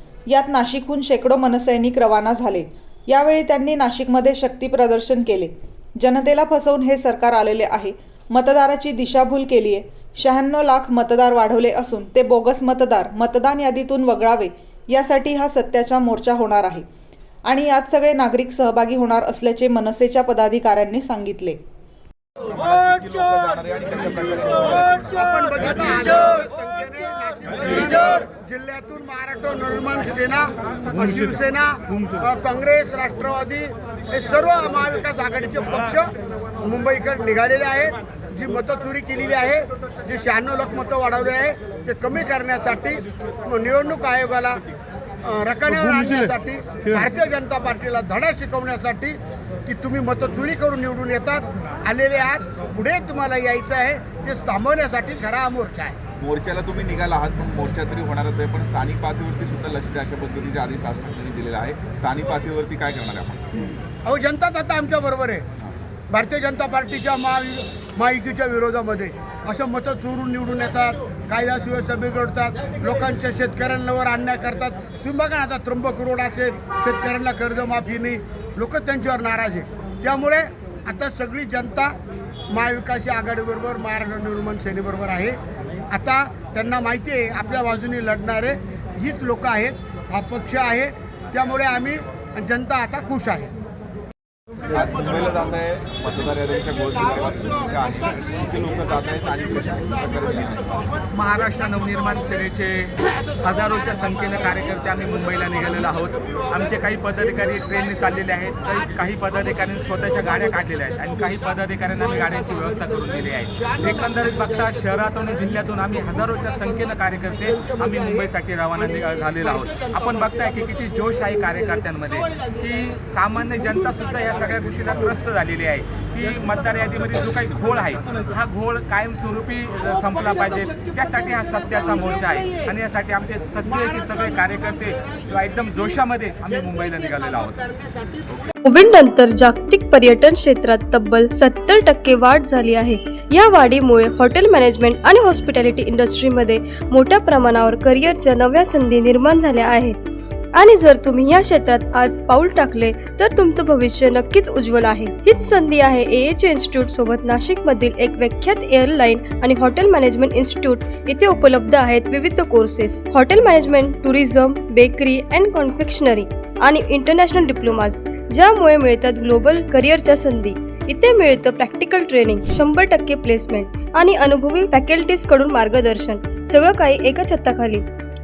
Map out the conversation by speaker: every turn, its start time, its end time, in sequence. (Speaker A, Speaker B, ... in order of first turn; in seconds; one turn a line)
Speaker A: 0.3-16.8
Speaker A: 17.4-21.6
Speaker B: 22.4-25.3
Speaker C: 25.2-44.6
Speaker C: 45.2-56.0
Speaker B: 56.2-63.6
Speaker C: 64.0-65.4
Speaker C: 66.1-82.0
Speaker C: 82.5-85.4
Speaker C: 85.9-93.5
Speaker B: 94.7-100.8
Speaker D: 101.1-137.6
Speaker C: 112.1-115.2
Speaker C: 116.2-120.7
Speaker C: 122.1-122.5
Speaker C: 130.2-132.6
Speaker C: 133.6-138.5
Speaker E: 138.6-149.9
Speaker E: 150.6-177.8